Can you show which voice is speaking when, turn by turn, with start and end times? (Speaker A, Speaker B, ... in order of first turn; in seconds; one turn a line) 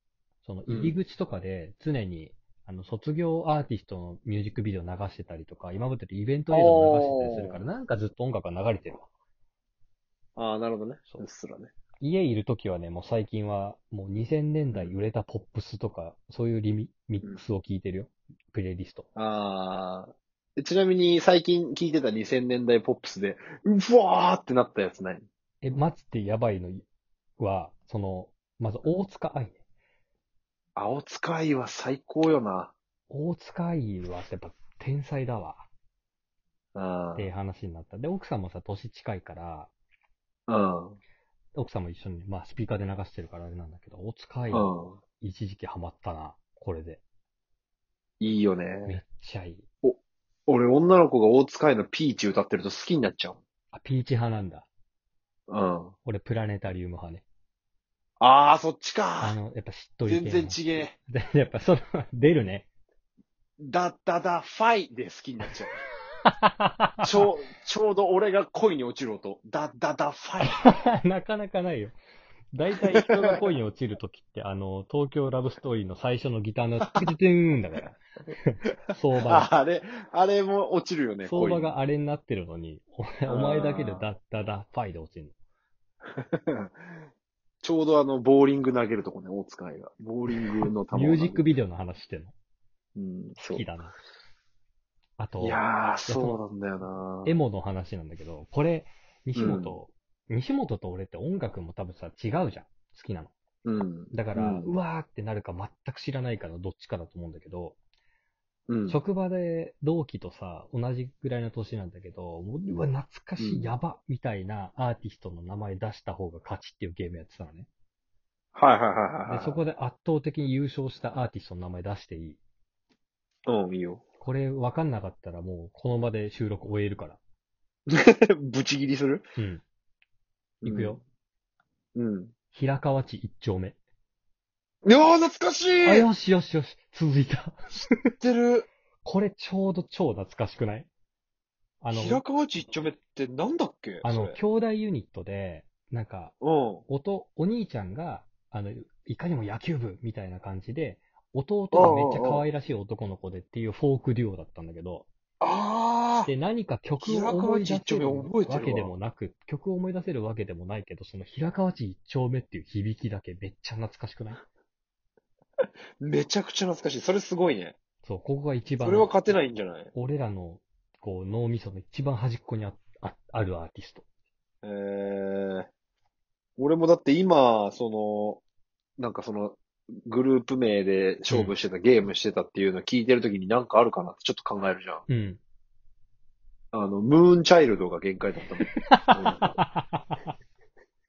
Speaker A: 0.4-9.1
Speaker B: 0.7-1.0
Speaker B: 6.5-7.7
Speaker B: 10.4-11.7
Speaker A: 11.0-11.3
Speaker A: 12.0-19.1
Speaker B: 14.7-15.0
Speaker B: 17.2-17.5
Speaker B: 19.1-25.2
Speaker A: 25.6-26.8
Speaker A: 27.4-29.6
Speaker B: 30.8-32.7
Speaker A: 33.1-35.6
Speaker B: 36.8-37.3
Speaker A: 37.1-39.7
Speaker B: 40.5-41.0
Speaker A: 41.5-47.0
Speaker B: 44.5-45.0
Speaker B: 48.2-49.1
Speaker A: 48.9-49.6
Speaker B: 49.8-53.4
Speaker A: 53.7-54.7
Speaker B: 55.5-56.0
Speaker A: 56.0-57.2
Speaker B: 58.2-59.4
Speaker A: 59.2-62.6
Speaker B: 60.0-60.9
Speaker B: 63.6-65.7
Speaker A: 66.2-67.2
Speaker B: 67.0-70.7
Speaker A: 70.4-71.9
Speaker A: 72.5-79.5
Speaker B: 72.7-73.5
Speaker B: 76.8-77.1
Speaker B: 79.2-81.8
Speaker A: 81.2-85.3
Speaker B: 83.2-84.2
Speaker B: 86.1-86.7
Speaker B: 87.6-91.5
Speaker A: 90.3-92.3
Speaker B: 92.9-93.8
Speaker A: 93.4-93.9
Speaker A: 95.2-96.4
Speaker B: 95.4-97.4
Speaker A: 97.2-103.3
Speaker B: 99.3-99.8
Speaker B: 103.6-104.8
Speaker A: 104.1-107.7
Speaker B: 108.7-109.1
Speaker A: 108.9-117.7
Speaker B: 113.4-113.7
Speaker B: 118.5-119.7
Speaker A: 119.3-122.4
Speaker B: 123.5-124.0
Speaker A: 124.2-127.2
Speaker B: 127.9-129.2
Speaker A: 129.3-129.6
Speaker A: 130.6-131.0
Speaker B: 130.6-131.0
Speaker B: 131.9-132.4
Speaker A: 132.5-133.7
Speaker B: 134.8-136.1
Speaker A: 135.8-138.1
Speaker B: 138.2-138.7
Speaker A: 139.0-140.9
Speaker A: 141.8-142.3
Speaker B: 141.9-144.4
Speaker A: 144.0-146.3
Speaker B: 146.4-146.8
Speaker A: 146.9-155.1
Speaker B: 151.7-152.4
Speaker B: 155.4-156.4
Speaker A: 156.2-164.4
Speaker B: 157.0-158.9
Speaker B: 166.0-167.8
Speaker A: 168.0-169.4
Speaker B: 168.7-169.9
Speaker A: 169.9-174.0
Speaker B: 174.6-175.7
Speaker B: 176.6-178.4
Speaker B: 179.0-185.0
Speaker A: 181.3-181.5
Speaker A: 185.1-185.4
Speaker B: 186.7-189.8
Speaker A: 188.4-190.2